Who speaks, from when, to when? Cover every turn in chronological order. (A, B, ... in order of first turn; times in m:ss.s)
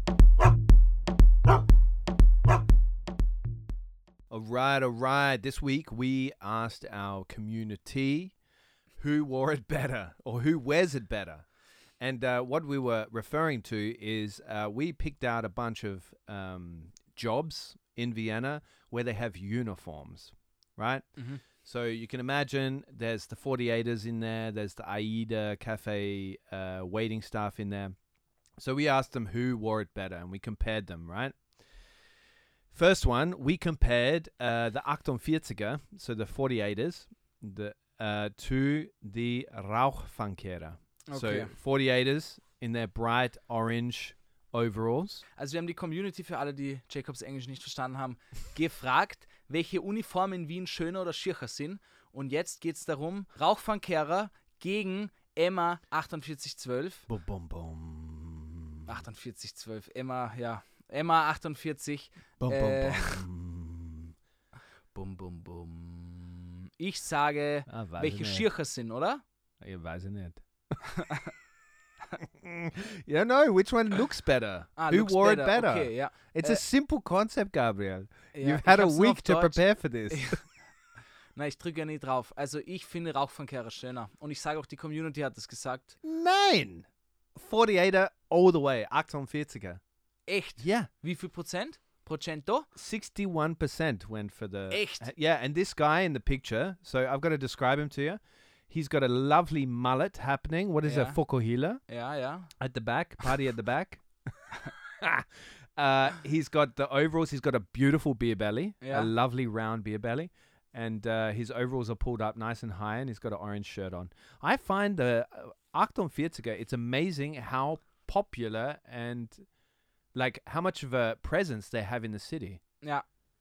0:04.3-0:08.3 A
0:09.0-0:11.4 A
0:12.0-0:28.0 A
0:21.2-0:21.4 B
0:28.6-0:31.4 A
0:32.7-0:45.2 A
0:41.1-0:41.5 B
0:45.4-0:57.1 B
0:57.1-0:58.9 A
0:58.9-1:03.2 B
1:02.4-1:04.1 A
1:04.9-1:09.2 B
1:07.7-1:08.5 A
1:09.6-1:10.8 A
1:10.8-1:11.3 B
1:12.2-1:20.4 A
1:14.8-1:16.6 B
1:18.3-1:20.4 B
1:21.3-1:26.0 B
1:26.0-1:29.8 A
1:30.3-1:32.7 B
1:30.6-1:30.9 A
1:32.8-1:41.8 A
1:34.7-1:35.1 B
1:40.8-1:41.2 B
1:41.9-1:42.5 B
1:42.6-1:44.0 A
1:45.0-1:59.5 A
1:48.8-1:49.1 B
2:00.1-2:02.6 A